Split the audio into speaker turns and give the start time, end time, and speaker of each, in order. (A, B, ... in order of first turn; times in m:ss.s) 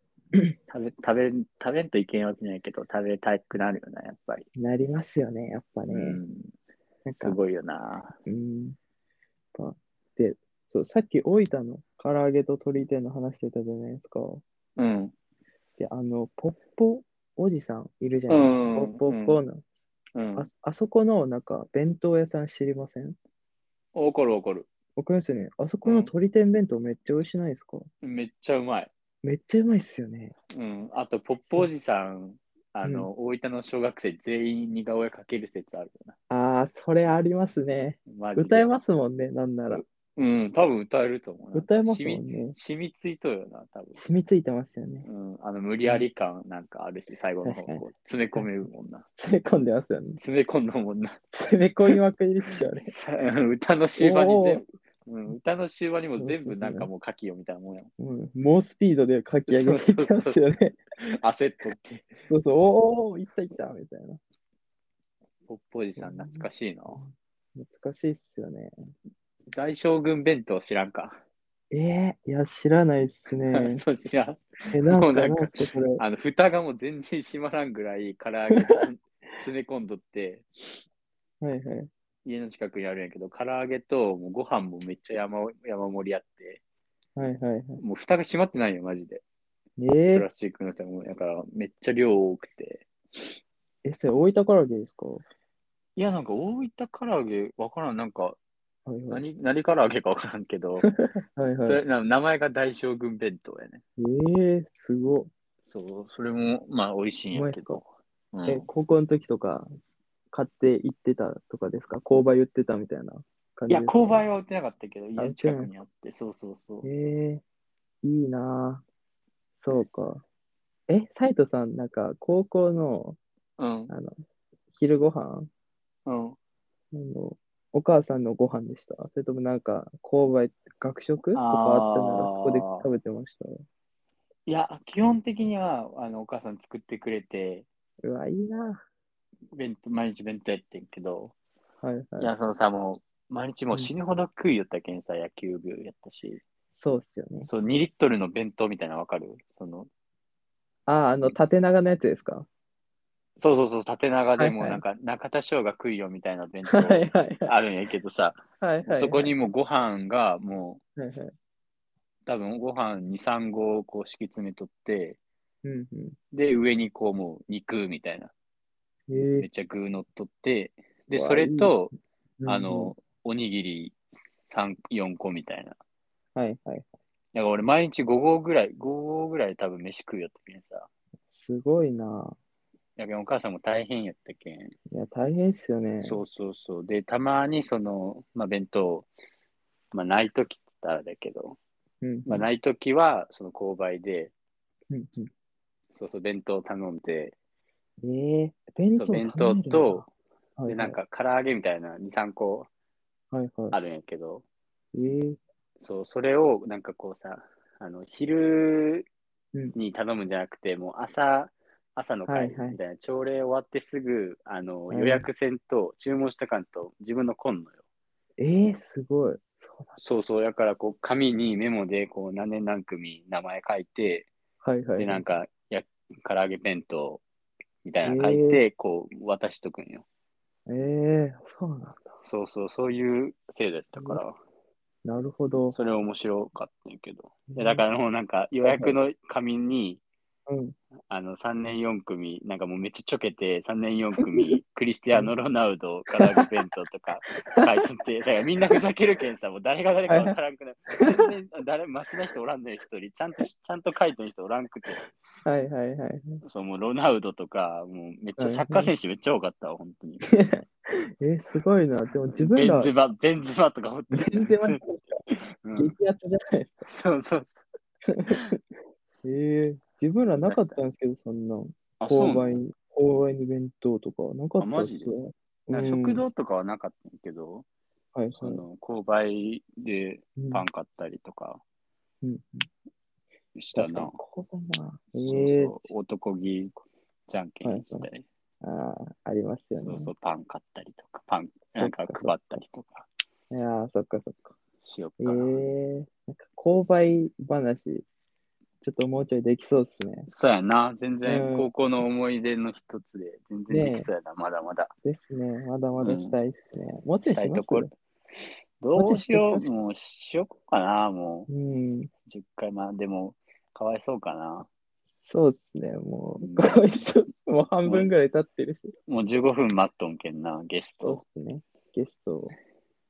0:00.7-0:04.4 A
0:04.6-0:06.2 B
0:05.9-0:06.5 A
0:07.0-0:07.4 B
0:07.2-0:08.2 A
0:08.2-0:08.8 B
0:09.5-0:14.4 B
0:14.8-0:15.1 A
0:15.8-0:19.7 B
0:18.3-0:19.4 A
0:20.1-0:20.5 A
0:20.4-0:23.2 B
0:23.9-0:24.7 A
0:25.0-0:27.9 B
0:25.8-0:26.1 A
0:28.0-0:28.9 A
0:29.2-0:30.4 B
0:30.5-0:36.2 A
0:31.4-0:31.7 B
0:32.8-0:33.1 B
0:36.3-0:39.8 B
0:38.1-0:38.7 A
0:39.7-0:44.0 A
0:41.5-0:42.6 B
0:44.0-0:45.1 B
0:45.0-0:49.1 A
0:47.4-0:47.8 B
0:49.2-0:50.2 B
0:50.2-0:51.2 A
0:51.3-0:52.9 B
0:52.7-0:57.9 A
0:54.0-0:54.6 B
0:56.2-0:56.9 B
0:58.0-1:00.8 B
0:59.5-1:00.4 A
1:01.0-1:02.2 A
1:02.2-1:04.2 B
1:05.5-1:07.0 A
1:06.0-1:08.7 B
1:09.5-1:11.2 A
1:11.7-1:13.8 B
1:13.4-1:20.4 A
1:14.7-1:16.0 B
1:21.4-1:21.9 B
1:22.2-1:26.6 A
1:27.2-1:27.8 B
1:27.8-1:29.2 A
1:29.8-1:30.2 B
1:30.1-1:32.9 A
1:33.8-1:35.2 B
1:36.0-1:38.4 A
1:38.9-1:39.2 B
1:39.1-1:40.9 A
1:41.0-1:41.8 B
1:41.6-1:43.8 A
1:44.0-1:45.3 B
1:45.7-1:48.6 A
1:47.3-1:47.8 B
1:48.5-1:49.7 B
1:50.3-1:54.2 B
1:53.7-1:56.9 A
1:55.2-1:55.7 B
1:56.8-1:57.4 B
1:58.0-1:58.8 B
1:59.6-2:00.2 B
2:00.9-2:03.2 B
2:03.6-2:03.9 A
2:03.9-2:04.2 B
2:04.7-2:05.5 B
2:06.0-2:06.4 A
2:06.9-2:13.6 B
2:11.3-2:12.9 A
2:14.5-2:17.6 A
2:18.0-2:18.8 B
2:19.5-2:21.3 A
2:21.8-2:22.3 B
2:22.2-2:26.4 A
2:26.7-2:27.5 B
2:27.4-2:29.9 A
2:30.9-2:32.5 B
2:33.4-2:40.8 A
2:34.4-2:34.8 B
2:36.7-2:37.5 B
2:38.6-2:39.3 B
2:41.0-2:41.3 B
2:42.2-2:45.2 A
2:45.6-2:46.2 B
2:46.3-2:48.3 A
2:49.1-2:49.5 B
2:49.3-2:51.9 A
2:51.1-2:51.8 B
2:52.4-2:52.9 B
2:52.4-2:55.8 A
2:56.4-2:56.9 B
2:57.3-3:00.9 A
3:01.3-3:02.4 B
3:03.0-3:04.8 A
3:04.9-3:06.2 B
3:06.0-3:09.1 A
3:09.9-3:11.6 A
3:12.0-3:12.4 B
3:12.2-3:14.3 A
3:14.9-3:15.3 B
3:15.9-3:17.3 A
3:18.0-3:20.0 B
3:18.9-3:20.1 A
3:20.6-3:21.0 B
3:20.7-3:22.7 A
3:23.3-3:23.8 B
3:23.7-3:24.4 A
3:24.9-3:25.4 B
3:25.8-3:29.1 A
3:29.7-3:37.8 A
3:32.3-3:32.8 B
3:34.9-3:35.2 B
3:38.4-3:40.0 B
3:40.0-3:44.3 A
3:44.6-3:45.2 B
3:45.0-3:47.2 A
3:47.8-3:50.0 A
3:48.0-3:48.6 B
3:50.7-3:52.0 B
3:52.2-3:54.4 A
3:55.0-3:55.8 B
3:55.7-4:00.0 A
3:57.5-3:57.8 B
3:58.6-3:58.9 B
4:00.5-4:00.8 B
4:01.1-4:15.1 A
4:06.1-4:06.4 B
4:10.1-4:10.4 B
4:15.4-4:16.4 B
4:16.4-4:20.3 A
4:18.4-4:18.9 B
4:20.3-4:22.9 B
4:22.3-4:26.0 A
4:24.1-4:25.0 B
4:25.8-4:26.9 B
4:26.9-4:27.6 A
4:28.1-4:28.6 B
4:28.3-4:28.6 A
4:29.2-4:36.2 B
4:30.4-4:30.8 A
4:32.0-4:32.5 A
4:34.6-4:35.1 A
4:35.7-4:37.6 A
4:38.1-4:38.6 B
4:38.4-4:41.6 A
4:40.4-4:40.6 B
4:42.2-4:42.7 B
4:43.5-4:44.2 A
4:43.8-4:45.9 B
4:45.2-4:46.8 A
4:47.3-4:48.2 A
4:47.6-4:48.1 B
4:48.6-4:50.1 B
4:49.8-4:53.1 A
4:51.7-4:52.3 B
4:53.5-4:54.6 B
4:54.8-4:55.6 A
4:55.2-4:58.0 B
4:58.8-5:00.3 B
5:00.3-5:04.9 A
5:01.2-5:01.7 B
5:03.7-5:04.1 B
5:05.0-5:07.9 B
5:06.0-5:06.4 A
5:07.2-5:11.5 A
5:09.0-5:09.7 B
5:11.5-5:12.1 B
5:12.3-5:14.7 A
5:15.1-5:18.9 B
5:16.4-5:16.9 A
5:19.1-5:21.2 A
5:21.0-5:22.6 B